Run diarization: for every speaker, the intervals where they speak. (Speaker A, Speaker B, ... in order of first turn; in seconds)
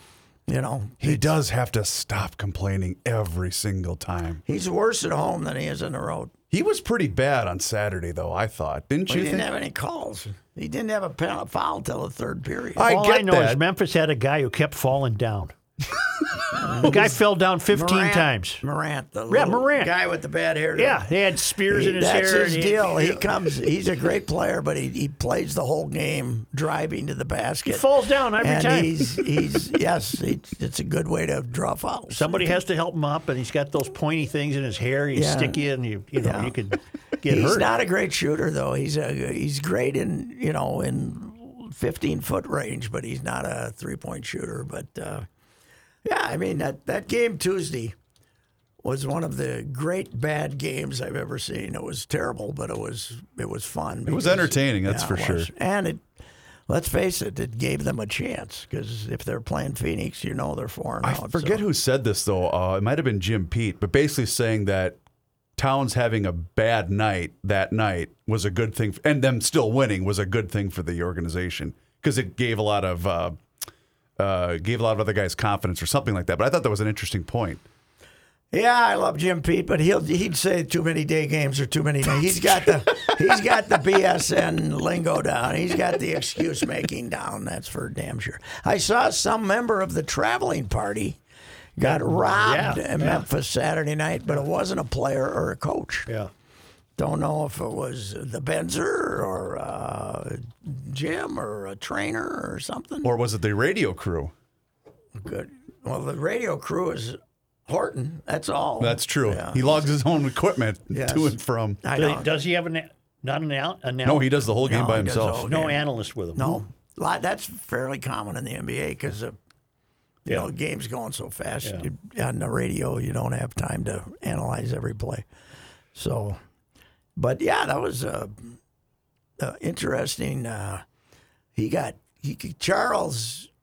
Speaker A: 0.5-1.4, 4.5-6.3, 9.1-12.9, 16.6-21.0, 21.7-32.6, 35.1-35.6, 36.2-36.5, 37.2-45.3, 46.0-48.0, 48.8-56.0, 56.7-61.6, 78.5-91.2, 91.8-96.1, 97.0-103.1, 105.2-109.8, 110.9-112.3, 114.6-115.8, 116.4-119.3, 120.3-125.3, 126.0-126.4, 127.2-128.6, 129.4-130.8, 131.6-133.5
Speaker B: 1.0-4.4, 6.5-9.5, 12.8-13.6, 54.1-55.5, 61.0-65.0, 65.6-73.4, 74.2-77.6, 103.0-104.3, 108.8-111.8, 114.0-115.5
Speaker C: 12.8-15.5, 16.7-18.6, 19.3-19.9, 20.8-23.5, 27.7-29.3, 32.1-37.7, 91.8-93.3, 112.0-114.4, 115.4-116.6